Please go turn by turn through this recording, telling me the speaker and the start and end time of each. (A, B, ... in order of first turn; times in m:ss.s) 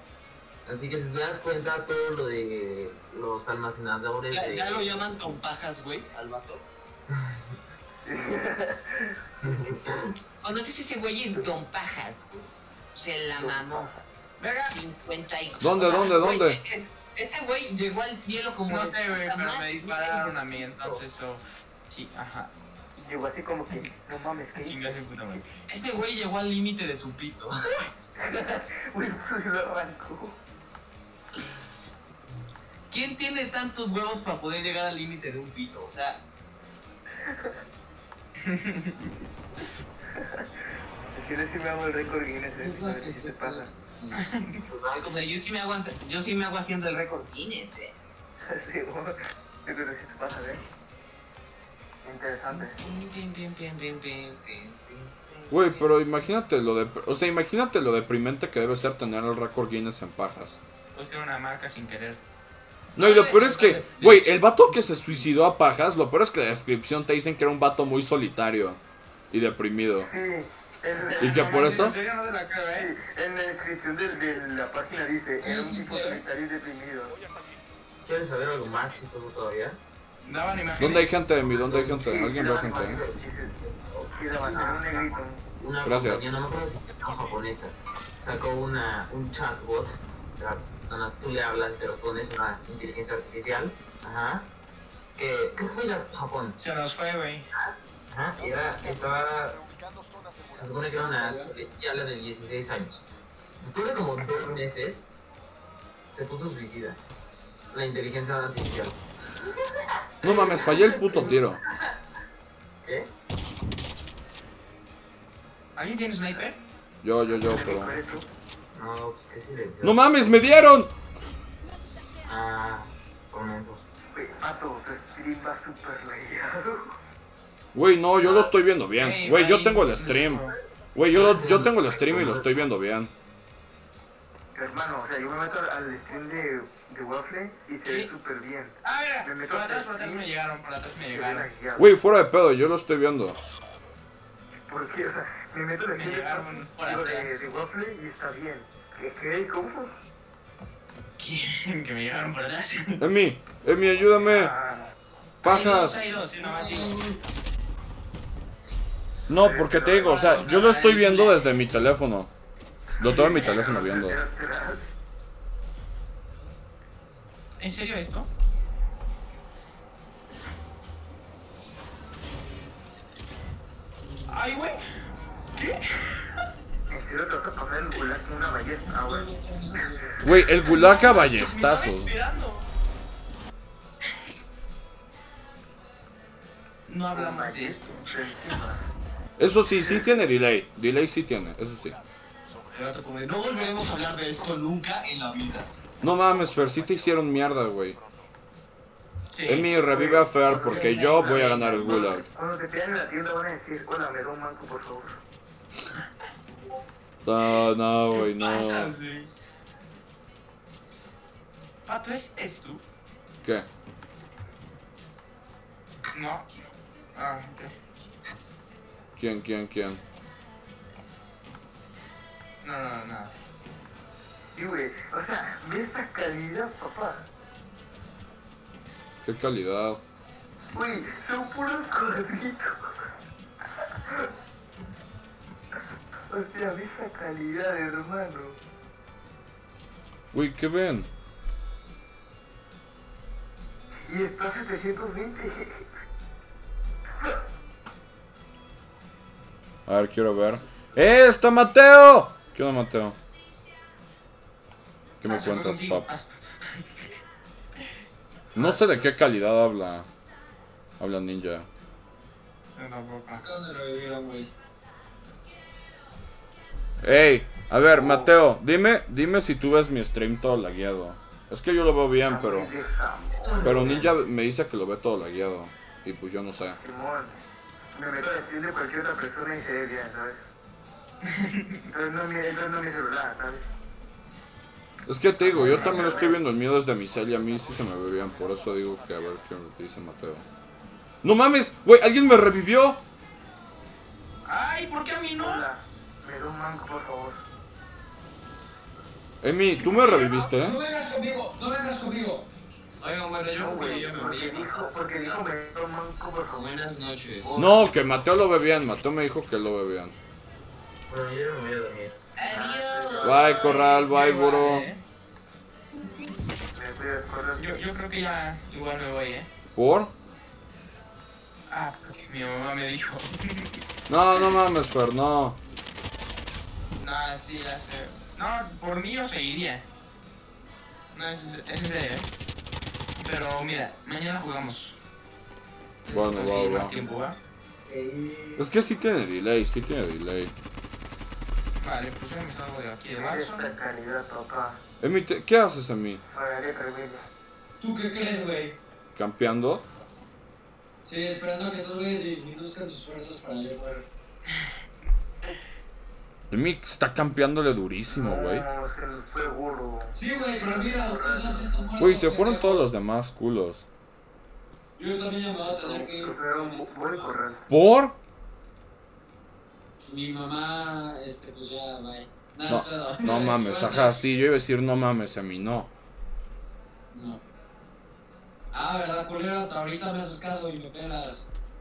0:00.6-0:05.1 A
0:04.3-0:06.6 B
0:07.1-0:07.4 A
0:08.0-0:09.7 C
0:09.4-0:10.1 A
0:10.4-0:13.9 B
0:13.4-0:14.0 C
0:14.4-0:14.8 D
0:14.7-0:20.9 B
0:15.6-0:16.6 E
0:18.7-0:22.5 D
0:23.0-0:25.0 C
0:24.6-0:25.4 D
0:25.7-0:27.8 B
0:28.2-0:30.4 C
0:32.9-0:36.2 B
0:37.2-0:37.5 C
0:38.5-0:38.9 D
0:40.2-0:40.4 C
0:41.1-0:43.7 C
0:42.6-0:44.2 F
0:44.1-0:44.6 D
0:44.7-0:47.9 B
0:48.4-0:50.6 C
0:52.0-0:52.8 C
0:52.5-0:55.8 B
0:55.5-1:00.6 E
1:00.9-1:02.2 D
1:02.9-1:04.9 B
1:03.0-1:08.8 E
1:09.3-1:10.1 E
1:10.0-1:11.8 C
1:11.0-1:12.9 D
1:11.2-1:12.0 E
1:12.8-1:17.2 C
1:15.4-1:16.2 F
1:18.0-1:19.8 A
1:20.2-1:21.2 D
1:20.8-1:23.0 E
1:21.4-1:34.5 A
1:24.1-1:25.4 C
1:25.8-1:26.3 E
1:35.2-1:36.6 A
1:36.6-1:37.5 D
1:37.5-1:39.6 A
1:40.5-1:43.0 A
1:40.9-1:41.5 F
1:43.6-1:45.0 A
1:46.1-1:47.0 A
1:47.7-1:49.0 A
1:50.2-1:51.8 A
1:50.2-1:51.6 E
1:52.8-1:53.1 A
1:55.8-1:56.6 D
1:57.0-1:58.0 E
1:57.3-1:58.2 C
1:58.7-2:00.0 A
1:59.8-2:00.9 E
2:02.2-2:03.8 A
2:04.1-2:07.0 C
2:07.7-2:13.1 E
2:09.0-2:10.5 D
2:11.1-2:12.5 A
2:14.5-2:20.2 C
2:18.8-2:21.5 D
2:21.1-2:21.9 C
2:21.8-2:23.4 E
2:24.7-2:29.9 C
2:25.9-2:27.6 D
2:31.2-2:33.0 D
2:33.0-2:34.5 E
2:34.2-2:34.9 D
2:35.4-2:37.0 D
2:35.4-2:36.0 E
2:36.4-2:37.2 F
2:39.3-2:42.3 E
2:39.3-2:40.4 C
2:39.8-2:41.4 D
2:43.0-2:44.9 C
2:43.0-2:44.2 E
2:47.6-2:48.3 D
2:54.3-2:55.0 D
2:55.6-2:56.2 D
2:56.9-2:59.3 C
2:58.8-3:00.2 F
3:00.2-3:02.1 E
3:00.6-3:02.7 D
3:06.9-3:08.0 D
3:07.1-3:08.8 C
3:09.4-3:12.0 E
3:12.7-3:15.7 B
3:16.0-3:18.0 E
3:19.3-3:19.7 D
3:19.5-3:22.2 E
3:19.9-3:25.2 C
3:27.2-3:28.9 E
3:28.1-3:29.3 D
3:31.9-3:32.8 D
3:33.4-3:33.7 E
3:36.1-3:36.5 D
3:37.1-3:37.7 D
3:39.2-3:40.0 E
3:42.6-3:43.3 D
3:44.5-3:47.3 C
3:49.2-3:50.0 E
3:50.7-3:53.1 C
3:53.7-3:54.3 C
3:56.3-3:58.6 C
4:00.3-4:01.1 E
4:04.0-4:05.8 C
4:09.8-4:13.2 E
4:15.2-4:16.2 E
4:15.2-4:16.3 D
4:18.5-4:20.1 E
4:21.0-4:21.7 E
4:22.8-4:23.4 D
4:23.3-4:24.5 F
4:27.0-4:32.7 E
4:27.9-4:28.3 C
4:32.2-4:34.1 C
4:33.4-4:34.1 A
4:33.6-4:36.8 E
4:36.8-4:37.4 C
4:37.9-4:40.4 C
4:41.2-4:41.8 D
4:41.9-4:43.7 C
4:45.0-4:50.4 E
4:45.4-4:46.4 C
4:45.6-4:46.2 D
4:51.2-4:53.0 E
4:54.4-4:55.6 D
4:55.4-4:57.4 C
4:59.4-5:00.8 E
5:00.1-5:02.5 F
5:03.0-5:05.5 B
5:03.5-5:07.8 C
5:06.5-5:07.5 B
5:07.6-5:10.2 E
5:11.1-5:12.3 A
5:12.4-5:13.8 B
5:12.4-5:13.7 C
5:13.2-5:14.9 E
5:13.6-5:15.0 D
5:16.7-5:17.8 C
5:17.6-5:19.5 D
5:19.7-5:20.1 E
5:21.7-5:23.8 D
5:24.1-5:25.6 E
5:27.0-5:29.8 D
5:31.1-5:32.3 D
5:33.2-5:35.0 D
5:36.1-5:37.4 D
5:36.1-5:36.9 E
5:37.8-5:38.6 F
5:38.6-5:40.5 E
5:41.8-5:43.7 D
5:43.2-5:44.8 C
5:45.0-5:46.2 E
5:46.2-5:47.3 C
5:47.8-5:48.8 F
5:49.1-5:49.8 E
5:51.0-5:54.0 F
5:56.5-5:58.6 E
5:58.1-6:02.0 C
6:00.1-6:02.8 F
6:02.0-6:03.8 E
6:05.0-6:07.3 F
6:05.6-6:07.6 C
6:07.7-6:08.2 E
6:10.0-6:14.2 F
6:12.7-6:15.9 E
6:17.1-6:17.4 F
6:18.7-6:21.4 F